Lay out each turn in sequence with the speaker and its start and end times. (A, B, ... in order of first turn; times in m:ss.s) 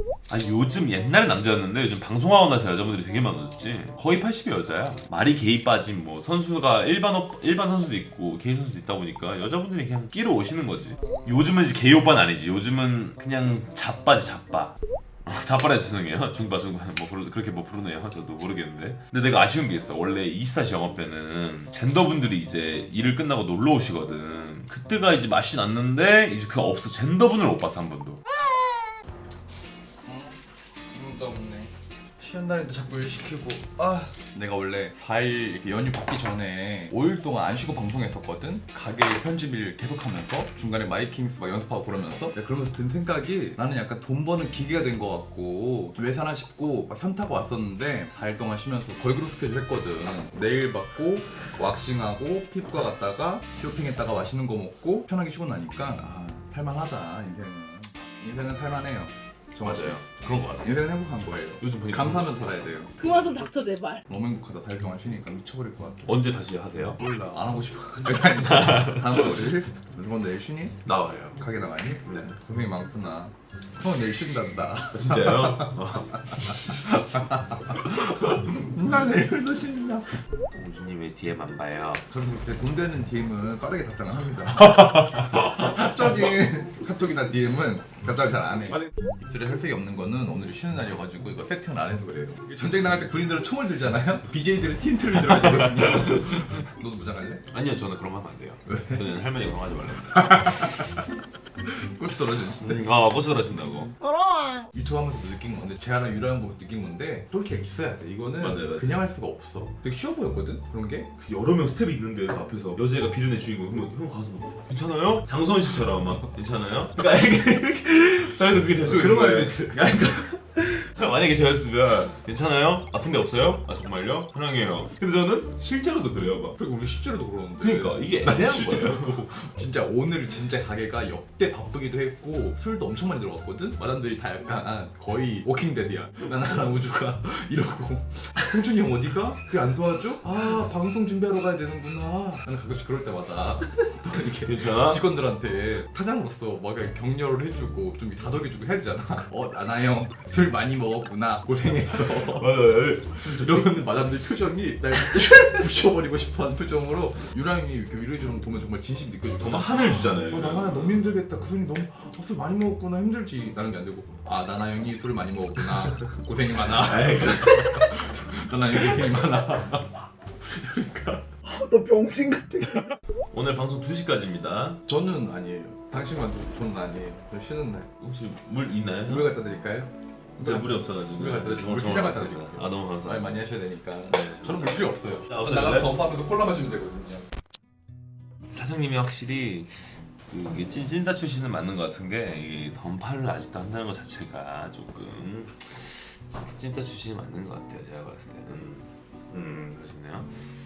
0:00.3-0:14.7 A
0:15.2-0:28.2 A
0:30.0-0:30.4 B
0:30.9-1:00.0 B
0:59.6-1:00.8 A
1:00.6-1:03.2 B
1:01.6-1:03.5 A
1:03.3-1:04.0 C
1:04.1-1:06.2 B
1:06.0-1:07.0 A
1:07.0-1:10.8 B
1:08.4-1:09.4 A
1:10.8-1:11.4 A
1:11.4-1:20.1 B
1:12.0-1:12.3 A
1:14.9-1:17.1 A
1:17.8-1:18.4 A
1:20.5-1:22.0 A
1:22.1-1:37.4 B
1:35.3-1:36.6 A
1:37.5-1:40.8 A
1:38.7-1:39.0 B
1:41.6-1:42.8 B
1:42.4-1:43.9 A
1:44.7-1:51.1 B
1:48.4-1:48.9 A
1:51.2-1:59.8 A
1:55.9-1:56.3 B
1:58.8-2:00.4 B
2:00.6-2:06.6 A
2:06.6-2:51.3 B
2:07.6-2:09.4 A
2:24.3-2:25.0 A
2:31.9-2:33.7 A
2:39.4-2:41.2 A
2:45.9-2:48.1 A
2:51.5-2:52.9 C
2:52.6-2:54.8 A
2:54.9-2:57.9 B
2:58.0-2:59.3 A
2:59.0-3:07.2 B
3:00.4-3:03.5 A
3:04.1-3:06.1 A
3:08.5-3:20.5 A